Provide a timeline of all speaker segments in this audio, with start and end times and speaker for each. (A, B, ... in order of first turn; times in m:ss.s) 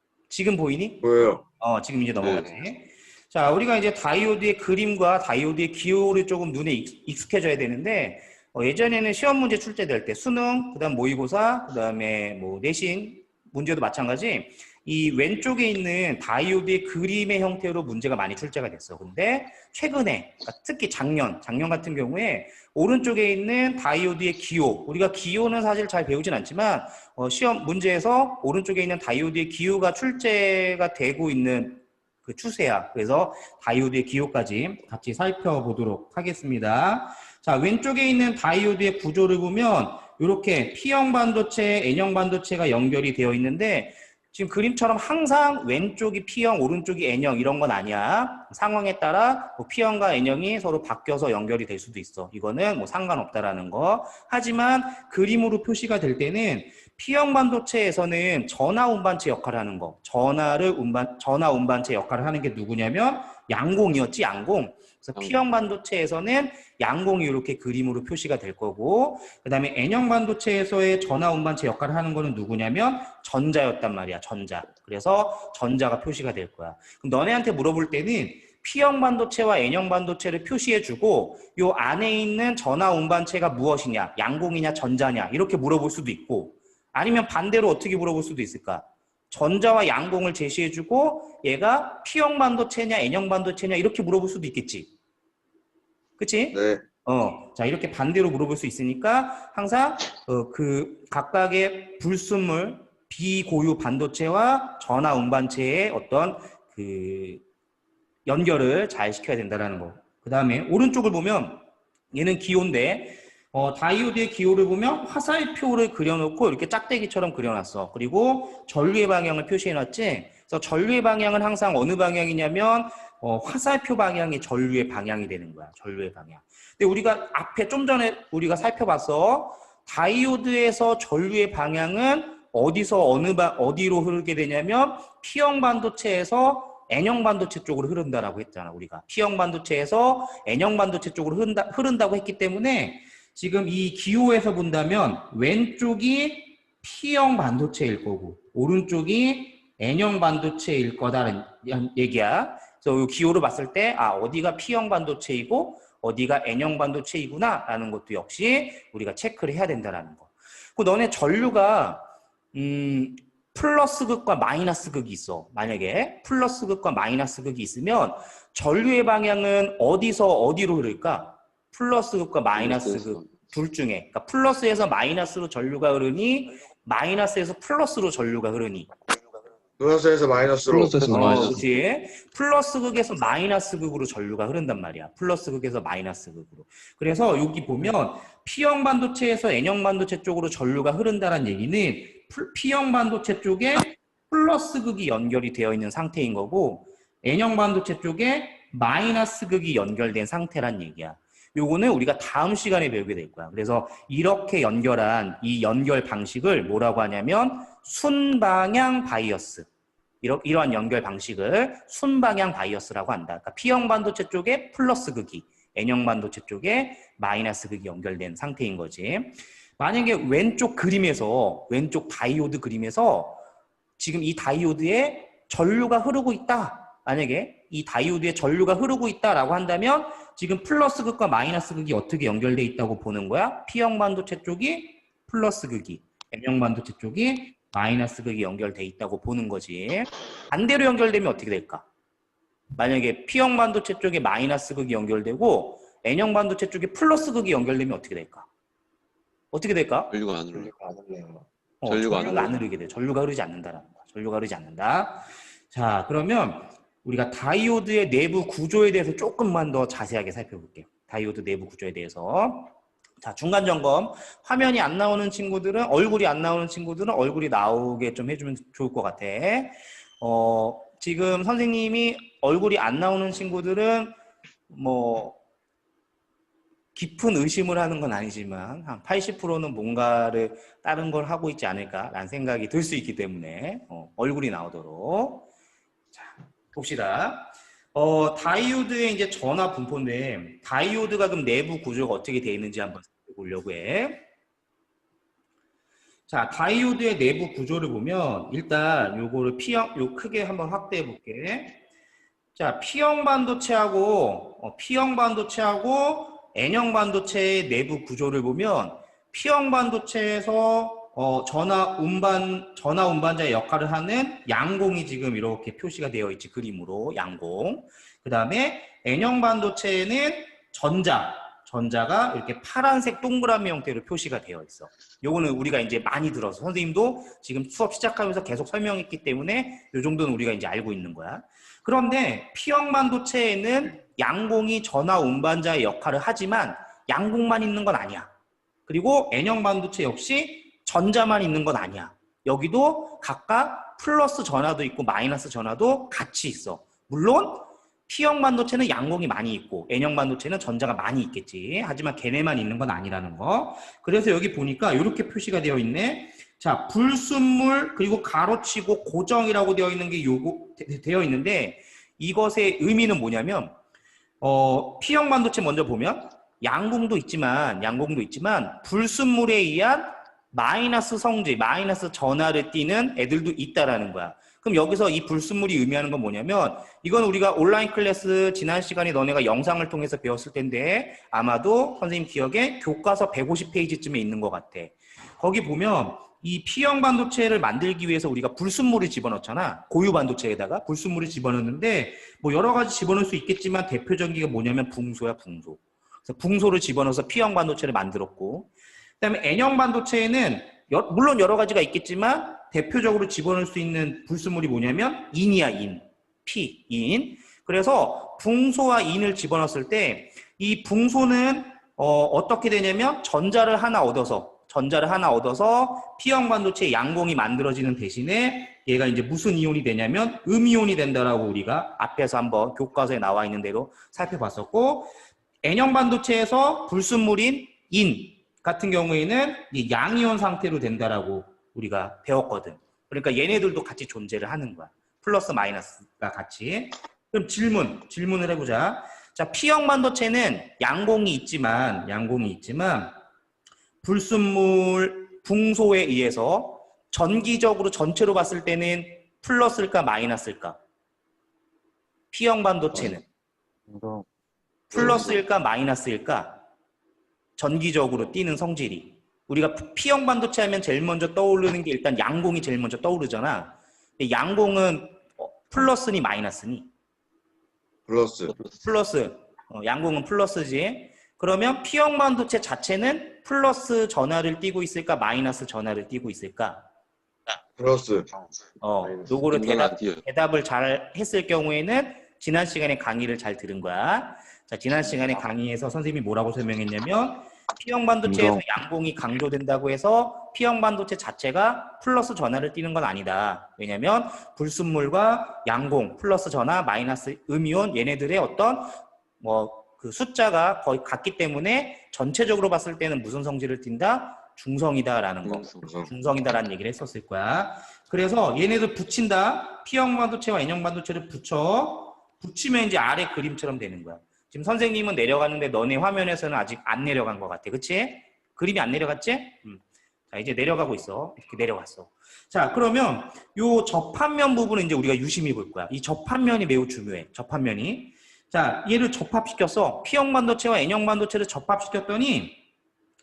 0:00.3-1:34.9 A
0:01.0-0:01.4 B
1:05.2-1:05.4 C
1:36.2-1:47.4 A
1:36.5-1:36.8 B
1:48.3-2:58.9 A
2:52.6-2:53.3 C
2:59.8-3:01.6 B
3:00.7-3:01.7 C
3:01.1-3:29.7 A
3:30.2-3:43.4 A
3:44.0-4:01.8 A
4:02.8-4:08.5 A
4:09.5-4:10.1 A
4:10.1-4:10.7 C
4:10.5-4:11.5 B
4:11.8-4:34.2 A
4:11.9-4:12.6 C
4:34.7-4:35.4 A
4:37.0-4:45.5 A
4:46.1-4:54.2 A
4:56.3-5:01.8 A
5:02.6-5:38.3 A
5:38.9-6:03.7 A
6:04.4-7:05.1 A
7:05.6-7:23.2 A
7:24.0-7:30.8 A
7:32.3-7:33.2 A
7:34.9-7:36.6 A
7:37.6-7:46.9 A
7:48.1-7:48.6 B
7:48.8-7:56.8 A
7:57.8-7:58.3 B
7:58.8-8:52.6 A
7:59.5-8:00.2 C
8:08.3-8:08.6 B
8:25.5-8:26.1 C